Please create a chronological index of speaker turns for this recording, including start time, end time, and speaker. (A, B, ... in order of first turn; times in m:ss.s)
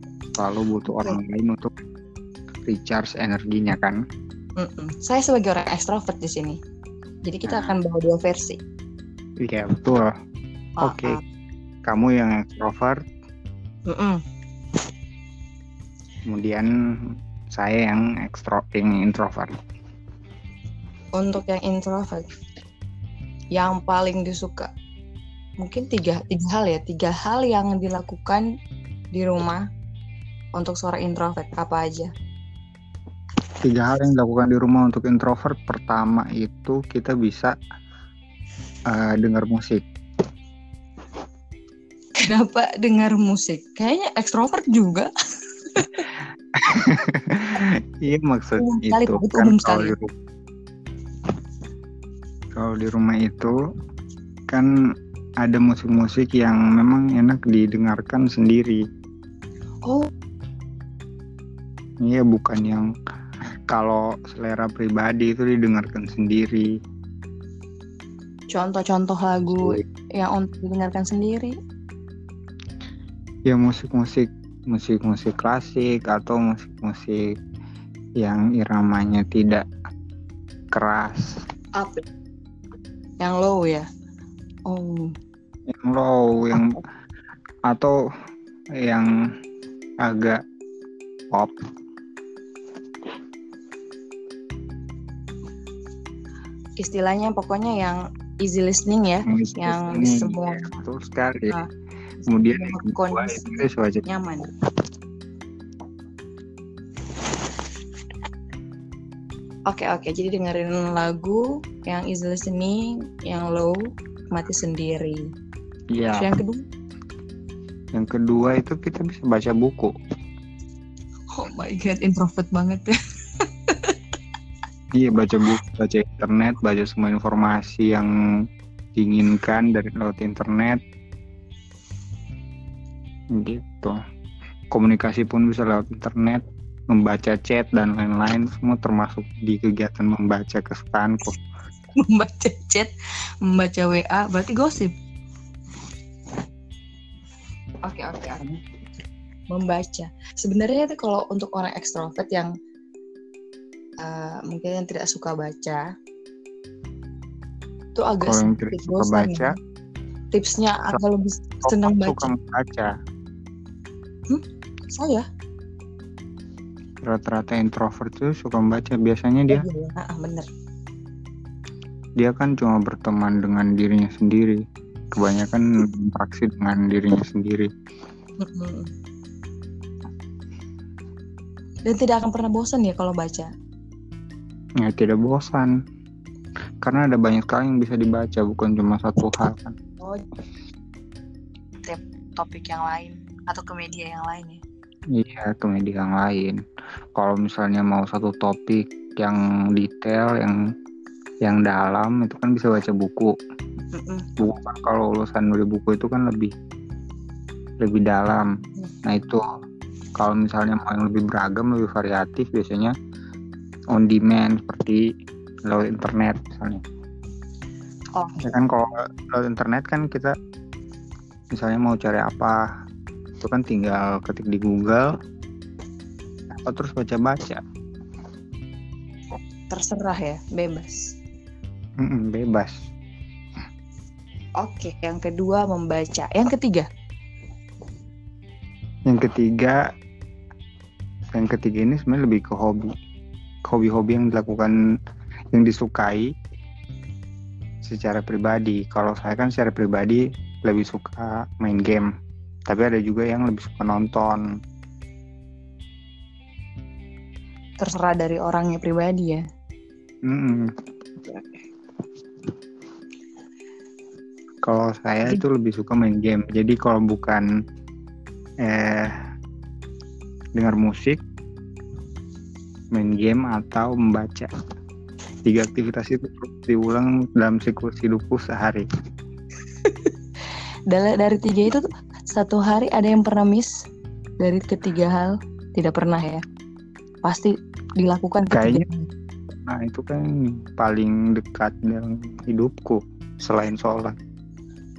0:00.4-0:01.7 A
0:00.9-0:01.2 B
0:02.6-0:04.0 A
0:04.6-0:06.6 B
0:07.2-0:08.6 B
0:07.5-0:07.7 A
0:09.4-0:10.1 A
0:10.8-0:11.2 B
0:10.8-0:11.2 A
0:11.8-0:13.0 A
0:13.9-0:14.2 B
0:16.3-0:19.6 A
0:21.2-0:22.3 B
0:23.5-0:24.7 B
0:25.6-0:28.4 B
0:29.1-0:29.6 B
0:30.6-0:32.1 B
0:33.6-0:37.6 A
0:38.9-0:39.8 A
0:42.2-0:45.1 B
0:45.7-0:46.1 B
0:46.5-0:50.1 A
0:48.6-0:49.9 B
0:52.5-0:53.5 A
0:55.4-0:58.8 A
1:02.0-1:02.9 A
1:03.7-1:06.7 A
1:08.5-1:11.5 B
1:09.5-1:09.8 A
1:13.5-1:17.3 A
1:18.2-1:19.6 A
1:20.7-1:21.4 A
1:21.8-1:22.0 B
1:23.2-1:23.8 B
1:24.7-1:25.1 B
1:25.7-1:26.8 A
1:27.7-1:28.0 A
1:28.8-1:29.1 A
1:30.0-1:30.4 A
1:36.8-1:40.8 B
1:39.2-1:41.6 A
1:42.2-1:44.5 B
1:42.3-1:44.0 A
1:49.7-1:53.8 B
1:54.3-1:55.2 B
1:55.9-1:56.3 A
1:56.2-1:56.6 B
1:57.9-1:59.9 A
2:01.3-2:04.0 B
2:04.9-2:08.1 A
2:09.0-2:10.8 A
2:13.3-2:14.0 A
2:14.7-2:21.4 A
2:22.0-2:22.9 B
2:23.4-2:24.9 B
2:27.8-2:28.6 B
2:29.5-2:32.5 B
2:34.0-2:35.8 B
2:37.9-2:39.6 B
2:38.2-2:39.6 A
2:40.3-2:42.3 B
2:41.6-2:42.9 A
2:44.3-2:45.2 B
2:47.0-2:49.6 A
2:49.5-2:50.5 B
2:52.2-2:54.6 A
2:55.1-2:57.7 A
2:58.4-2:58.9 B
3:01.8-3:03.5 B
3:04.8-3:05.8 A
3:06.8-3:09.8 A
3:11.8-3:14.6 B
3:15.1-3:16.6 A
3:17.1-3:20.6 A
3:21.4-3:23.4 A
3:23.9-3:24.2 B
3:24.4-3:26.5 A
3:27.8-3:28.5 A
3:29.0-3:29.4 A
3:30.2-3:32.9 A
3:33.9-3:35.0 A
3:35.6-3:36.8 A
3:38.1-3:38.5 B
3:38.4-3:40.4 A
3:41.5-3:42.6 A
3:43.4-3:45.1 A
3:46.5-3:47.6 A
3:49.7-3:51.0 B
3:52.0-3:52.7 A
3:54.6-3:56.8 B
3:59.1-3:59.8 A
4:01.3-4:02.9 A
4:03.6-4:04.8 A
4:05.5-4:06.3 A
4:07.8-4:12.1 A
4:12.7-4:14.4 A
4:17.8-4:19.4 B
4:20.2-4:20.7 A
4:24.6-4:27.4 A
4:28.6-4:29.1 A
4:30.6-4:31.2 A
4:32.9-4:34.5 A
4:35.4-4:38.8 A
4:40.9-4:43.7 B
4:44.4-4:46.4 B
4:47.2-4:49.0 B
4:48.5-4:48.8 A
4:49.5-4:54.2 A